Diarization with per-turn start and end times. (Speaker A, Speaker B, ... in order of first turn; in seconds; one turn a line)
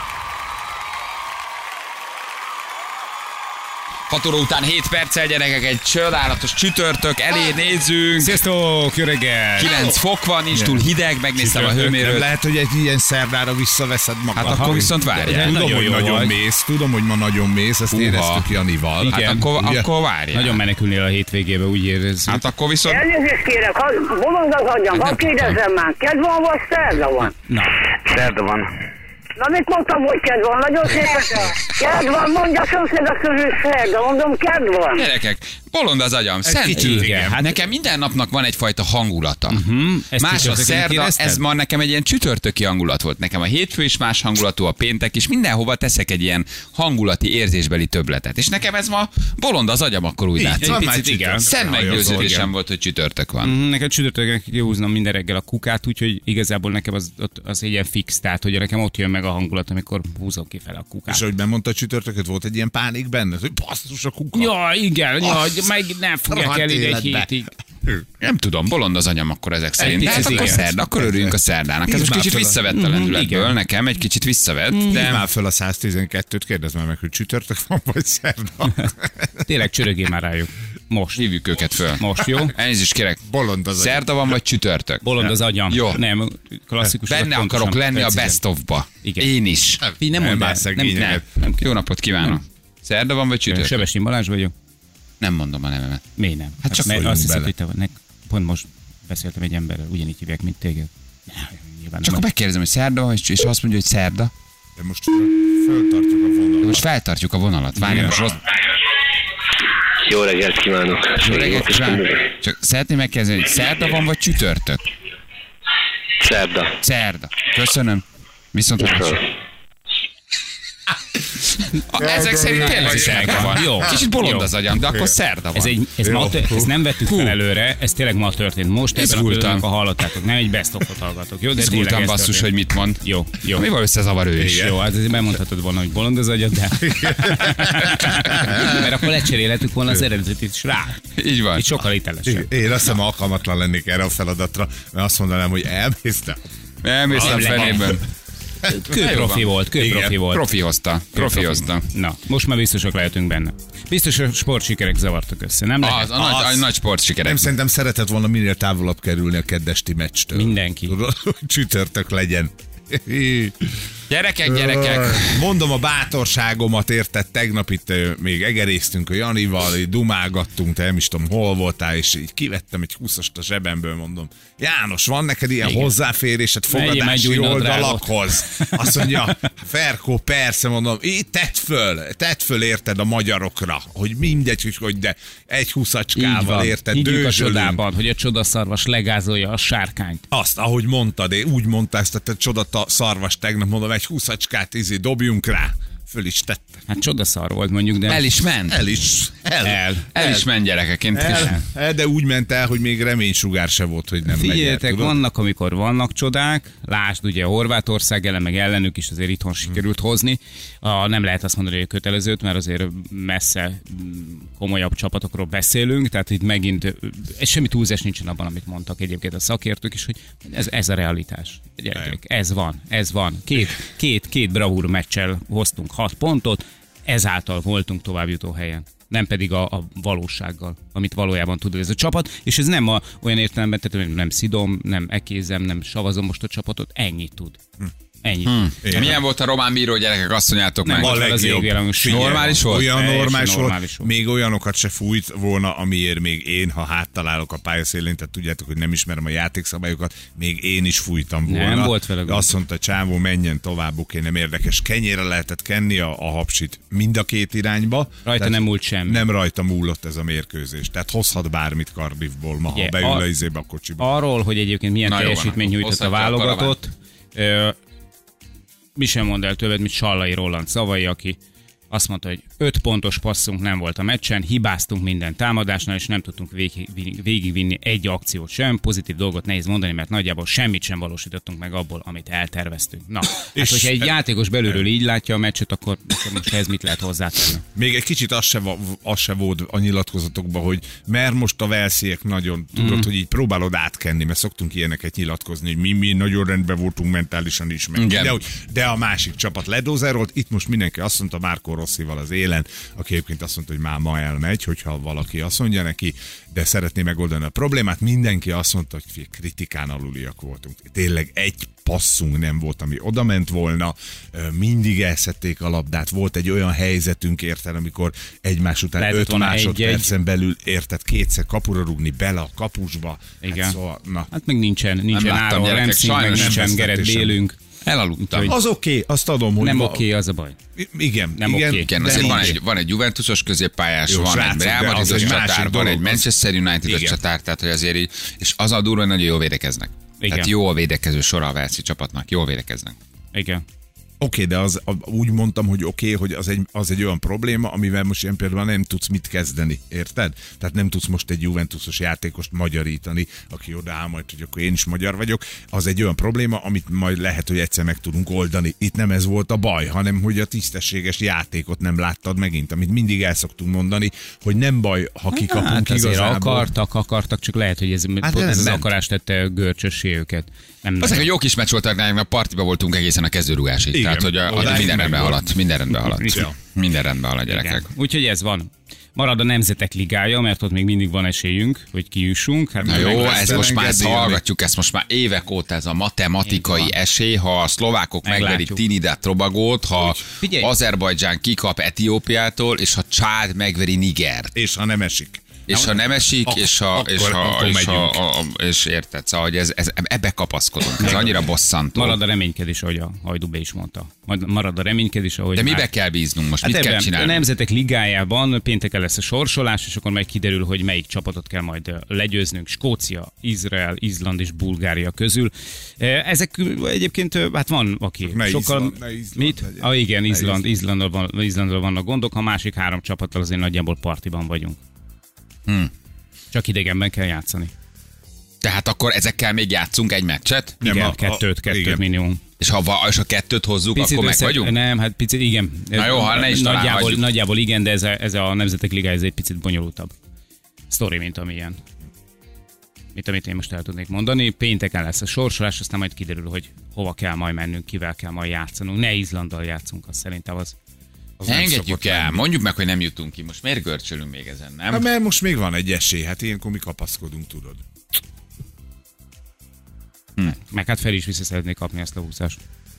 Speaker A: 4.1-8.4
Speaker B: 8.2-9.7
Speaker A: 9.6-12.3
Speaker C: 9.6-10.0
Speaker C: 10.5-10.8
Speaker C: 11.3-19.9
Speaker A: 14.3-15.6
Speaker B: 14.4-16.3
Speaker A: 17.9-18.5
Speaker B: 19.0-19.5
Speaker A: 19.1-20.6
Speaker B: 20.3-22.4
Speaker A: 22.3-23.1
Speaker D: 22.8-27.3
Speaker A: 25.0-25.6
Speaker B: 27.5-27.7
Speaker E: 28.1-28.7
Speaker D: 29.4-35.0
Speaker A: 34.9-39.6
Speaker C: 36.4-37.6
Speaker B: 36.7-37.5
Speaker B: 39.5-41.4
Speaker A: 40.2-50.9
Speaker C: 50.4-52.5
Speaker B: 50.6-52.5
Speaker A: 51.4-53.5
Speaker B: 53.4-61.2
Speaker C: 61.1-64.5
Speaker B: 64.3-67.5
Speaker C: 65.2-65.6
Speaker C: 66.3-67.3
Speaker A: 68.2-75.2
Speaker B: 69.8-70.6
Speaker C: 70.0-72.6
Speaker B: 72.7-73.5
Speaker B: 74.7-75.0
Speaker C: 74.8-79.3
Speaker B: 79.4-81.2
Speaker A: 81.2-86.0
Speaker B: 82.0-82.5
Speaker C: 83.2-84.1
Speaker B: 85.0-88.4
Speaker A: 86.9-89.8
Speaker B: 89.0-89.3
Speaker C: 89.8-91.2
Speaker B: 90.0-91.7
Speaker A: 90.9-93.8
Speaker B: 93.5-94.5
Speaker A: 95.2-96.0
Speaker B: 96.2-102.2
Speaker A: 96.6-96.9
Speaker C: 96.7-97.5
Speaker A: 102.0-104.3
Speaker C: 104.8-106.9
Speaker A: 106.6-108.4
Speaker C: 107.8-108.4
Speaker E: 110.0-112.2
Speaker A: 111.2-114.8
Speaker E: 116.2-116.7
Speaker A: 116.8-119.2
Speaker E: 118.8-119.2
Speaker A: 121.8-125.8
Speaker C: 122.0-123.7
Speaker B: 122.7-124.5
Speaker B: 125.5-132.5
Speaker C: 126.0-126.7
Speaker A: 128.9-129.6
Speaker A: 131.6-134.7
Speaker B: 133.0-133.7
Speaker C: 134.3-134.8
Speaker B: 134.4-142.5
Speaker C: 136.8-138.8
Speaker A: 141.2-141.8
Speaker C: 142.2-146.4
Speaker A: 146.8-148.0
Speaker C: 147.1-148.0
Speaker B: 147.1-147.9
Speaker B: 148.7-150.4
Speaker A: 148.9-149.5
Speaker C: 149.8-150.2
Speaker A: 150.1-151.8
Speaker B: 151.1-156.1
Speaker A: 155.8-157.5
Speaker C: 156.1-156.7
Speaker C: 157.2-163.8
Speaker B: 160.3-161.0
Speaker A: 164.1-165.5
Speaker C: 164.5-187.8
Speaker B: 175.6-175.9
Speaker B: 176.7-179.5
Speaker B: 186.2-190.2
Speaker C: 190.3-196.8
Speaker B: 196.9-198.2
Speaker A: 198.1-198.9
Speaker C: 198.7-200.5
Speaker B: 199.6-200.1
Speaker A: 200.1-201.6
Speaker C: 201.1-205.2
Speaker B: 201.2-201.6
Speaker B: 204.3-237.6
Speaker B: 238.2-239.1
Speaker A: 238.4-241.3
Speaker C: 238.8-239.2
Speaker B: 240.8-244.1
Speaker C: 240.9-264.1
Speaker A: 242.0-242.9
Speaker B: 251.4-252.5
Speaker B: 258.2-259.3
Speaker B: 262.7-263.3
Speaker B: 264.0-267.8
Speaker A: 265.0-266.8
Speaker B: 268.9-271.4
Speaker B: 271.9-287.6
Speaker C: 283.5-284.1
Speaker C: 287.7-324.3
Speaker B: 292.7-293.1
Speaker A: 297.9-298.4
Speaker B: 319.0-320.1
Speaker B: 323.4-323.8
Speaker B: 324.3-327.6
Speaker A: 325.1-327.3
Speaker C: 326.3-327.3
Speaker A: 327.8-328.5
Speaker B: 328.2-328.6
Speaker C: 328.5-330.1
Speaker B: 329.6-330.6
Speaker C: 330.8-332.6
Speaker B: 331.4-332.6
Speaker A: 331.9-342.9
Speaker C: 334.1-336.3
Speaker B: 335.0-335.4
Speaker C: 336.8-337.2
Speaker B: 340.2-340.5
Speaker B: 343.3-343.6
Speaker C: 344.2-366.7
Speaker B: 365.3-371.3
Speaker C: 368.2-368.9
Speaker A: 371.0-377.9
Speaker C: 373.9-375.6
Speaker B: 376.0-376.4
Speaker C: 376.2-376.5
Speaker B: 377.5-383.7
Speaker C: 382.8-384.4
Speaker A: 382.9-394.6
Speaker B: 386.5-386.9
Speaker B: 388.2-388.8
Speaker B: 390.3-390.7
Speaker C: 394.5-398.2
Speaker A: 395.7-402.2
Speaker B: 401.0-401.3
Speaker C: 401.0-401.3
Speaker B: 401.9-405.9
Speaker A: 405.6-407.4
Speaker B: 406.6-424.8
Speaker C: 418.2-420.7
Speaker B: 426.5-427.7
Speaker A: 428.6-430.8
Speaker C: 430.8-432.0
Speaker B: 430.8-432.4
Speaker A: 432.6-434.7
Speaker B: 433.9-440.1
Speaker A: 435.9-437.2
Speaker B: 440.9-441.8
Speaker B: 443.1-450.8
Speaker C: 451.4-452.4
Speaker A: 451.4-455.1
Speaker C: 454.9-457.8
Speaker B: 460.5-462.6